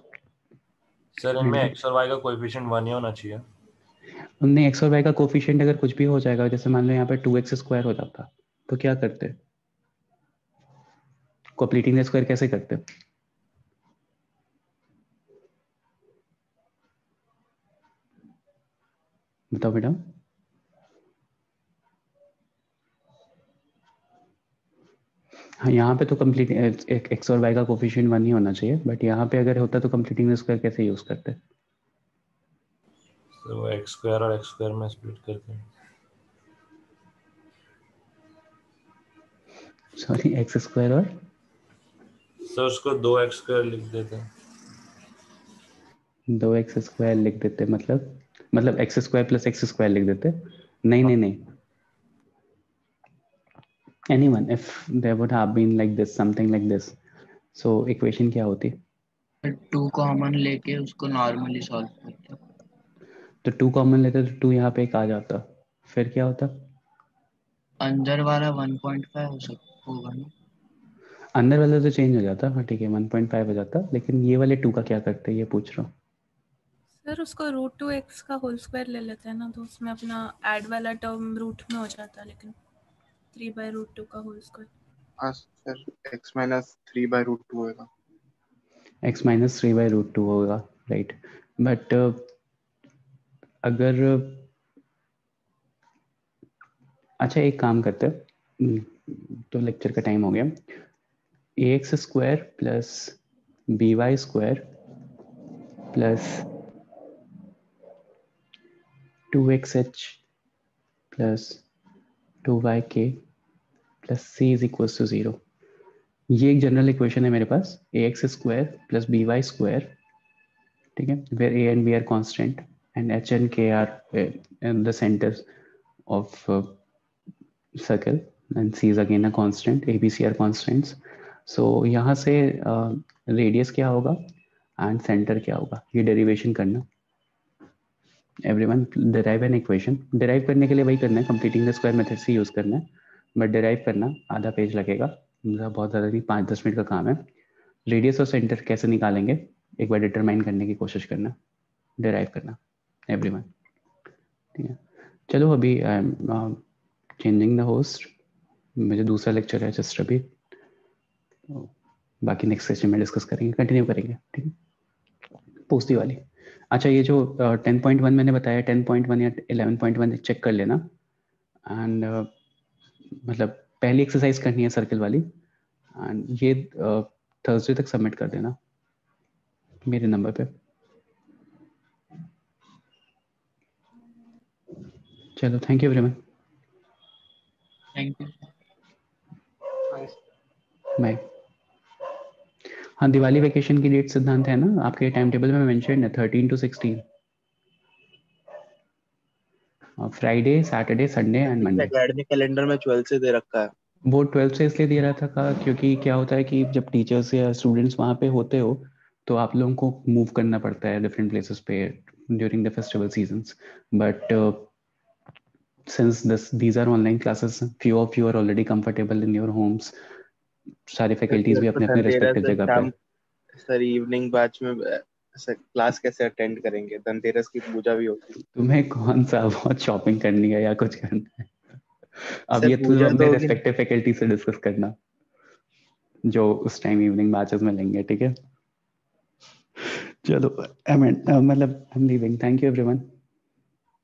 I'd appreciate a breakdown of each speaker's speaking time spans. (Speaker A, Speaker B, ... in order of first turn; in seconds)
Speaker A: 1.1-3.4, 33.3-35.6, 42.5-44.3
Speaker B: 1.4-1.7, 4.4-9.4, 11.6-12.8, 19.5-20.1, 25.6-31.4, 40.0-41.1, 46.3-51.4, 54.1-57.0, 57.5-58.8, 63.4-66.7, 71.3-75.9, 89.0-92.3, 93.6-94.5, 97.2-100.6, 101.6-103.2, 103.7-104.7, 105.9-106.5, 109.3-110.2, 111.1-111.6, 112.4-113.2, 114.0-115.4, 116.3-120.0, 121.0-125.5, 126.1-126.8, 127.8-134.2, 134.8-136.8, 138.4-147.2, 147.9-151.3, 152.0-152.6, 153.1-153.5, 154.6-156.6, 157.2-158.1, 158.8-160.3, 162.2-164.5, 165.7-170.9, 171.7-172.3, 173.2-175.3, 176.0-178.6, 179.8-180.5, 185.4-186.2, 193.0-197.0, 200.0-201.9, 204.1-214.7, 215.9-219.9, 220.9-222.9, 228.6-231.5, 232.5-235.0, 236.2-238.3, 239.8-243.1
Speaker C: 59.4-62.4, 67.8-70.3, 188.0-188.5
Speaker D: 77.0-82.5, 83.3-84.7
Speaker E: 85.2-87.9, 201.4-203.7, 221.3-222.9, 223.6-228.4, 232.5-233.6